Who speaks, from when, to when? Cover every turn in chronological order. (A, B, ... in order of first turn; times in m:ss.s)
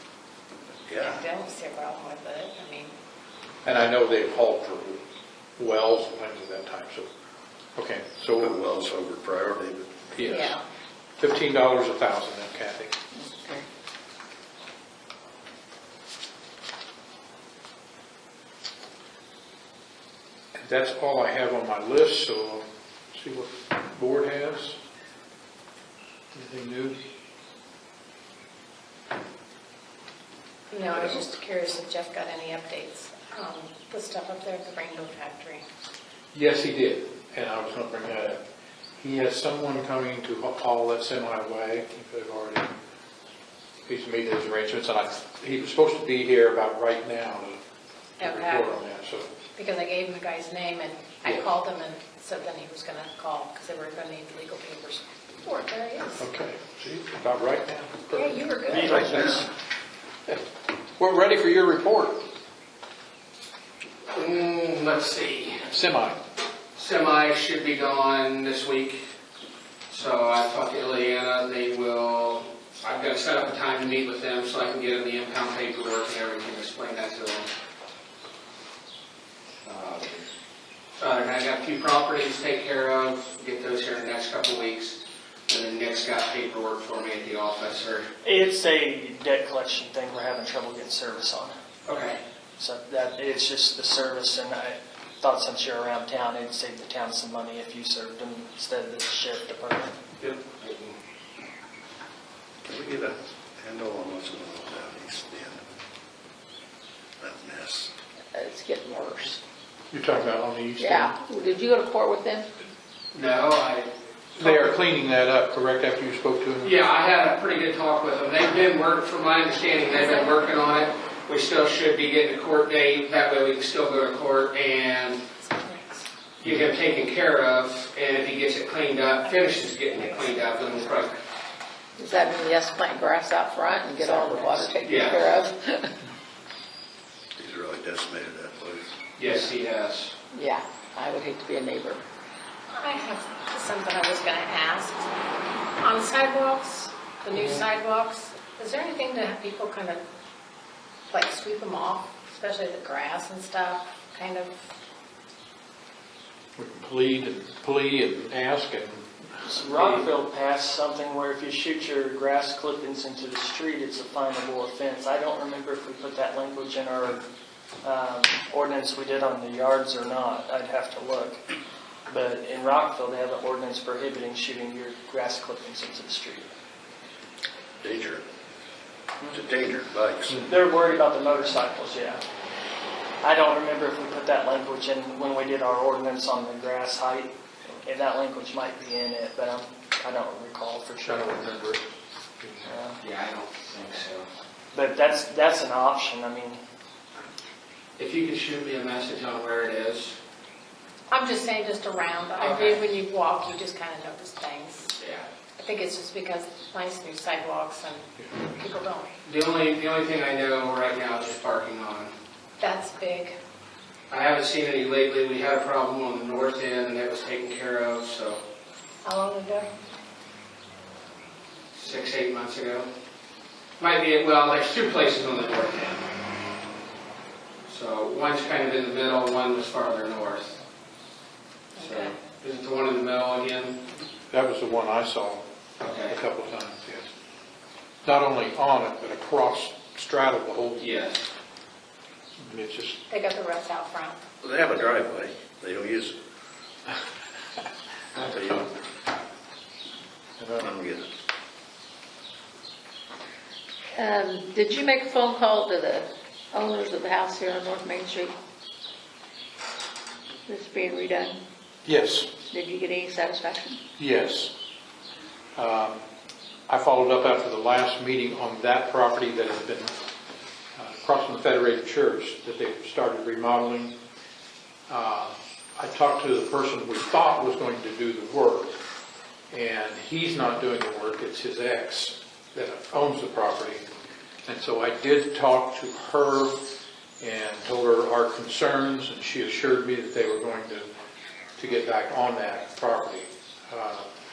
0:00.9-0:01.2 A
0:01.0-0:02.9 B
0:03.6-0:05.0 C
0:05.6-0:07.1 C
0:07.8-0:08.6 C
0:08.4-0:09.9 A
0:10.1-0:10.6 C
0:10.3-0:10.6 B
0:11.2-0:12.9 C
0:13.1-0:13.6 D
0:20.5-0:24.8 C
0:26.3-0:27.0 C
0:30.7-0:35.7 B
0:36.3-0:38.4 C
0:39.0-0:42.7 C
0:43.9-0:47.6 C
0:48.2-0:48.7 B
0:48.2-0:49.3 C
0:49.6-0:56.3 B
0:56.2-0:59.5 C
0:58.1-0:59.4 B
1:01.0-1:02.2 C
1:04.1-1:05.7 E
1:05.7-1:06.2 C
1:06.8-1:09.0 E
1:09.9-1:17.5 E
1:19.6-1:20.2 E
1:21.0-1:28.1 E
1:28.2-1:31.5 F
1:31.9-1:32.2 E
1:32.6-1:40.0 F
1:40.2-1:41.0 E
1:42.6-1:45.6 A
1:47.2-1:47.9 A
1:48.3-1:49.4 D
1:49.9-1:51.1 C
1:50.8-1:52.5 D
1:53.1-1:53.9 E
1:54.4-1:56.8 C
1:56.6-2:05.2 E
2:05.4-2:06.1 B
2:06.4-2:11.2 E
2:09.2-2:10.8 B
2:12.0-2:15.9 D
2:14.0-2:14.7 C
2:14.8-2:15.3 E
2:17.4-2:19.0 A
2:19.2-2:20.1 E
2:20.3-2:22.0 D
2:22.7-2:25.1 B
2:25.8-2:30.0 B
2:31.1-2:34.5 B
2:36.6-2:39.2 C
2:39.4-2:47.2 F
2:39.7-2:40.0 E
2:47.8-2:51.4 F
2:52.1-2:56.5 F
2:57.8-2:58.2 A
2:59.3-3:00.5 A
3:00.4-3:02.2 F
3:03.2-3:11.3 F
3:11.0-3:11.9 C
3:12.4-3:12.7 C
3:12.7-3:13.0 F
3:13.0-3:14.2 E
3:14.7-3:16.6 F
3:18.0-3:20.2 E
3:21.1-3:24.9 B
3:22.4-3:22.8 E
3:25.0-3:25.2 E
3:25.6-3:29.1 B
3:29.2-3:32.1 E
3:32.6-3:33.4 B
3:34.1-3:38.4 E
3:39.0-3:39.7 B
3:41.7-3:42.9 E
3:43.8-3:46.0 E
3:47.7-3:50.6 E
3:51.8-3:52.2 B
3:51.8-3:53.8 E
3:54.3-3:55.4 C
3:55.8-3:56.2 E
3:56.1-3:57.0 C
3:58.0-4:00.9 C
4:00.8-4:01.2 E
4:02.4-4:03.0 C
4:03.1-4:04.2 B
4:04.4-4:06.1 A
4:08.2-4:08.7 A
4:10.5-4:11.1 A
4:13.9-4:18.3 D
4:20.5-4:21.4 D
4:21.8-4:22.3 C
4:22.5-4:23.8 D
4:24.0-4:24.5 C
4:25.6-4:26.0 C
4:26.7-4:29.9 C
4:30.8-4:33.9 C
4:34.9-4:38.7 C
4:39.5-4:43.8 C
4:44.4-4:46.6 C
4:47.2-4:50.8 C
4:51.6-4:54.1 C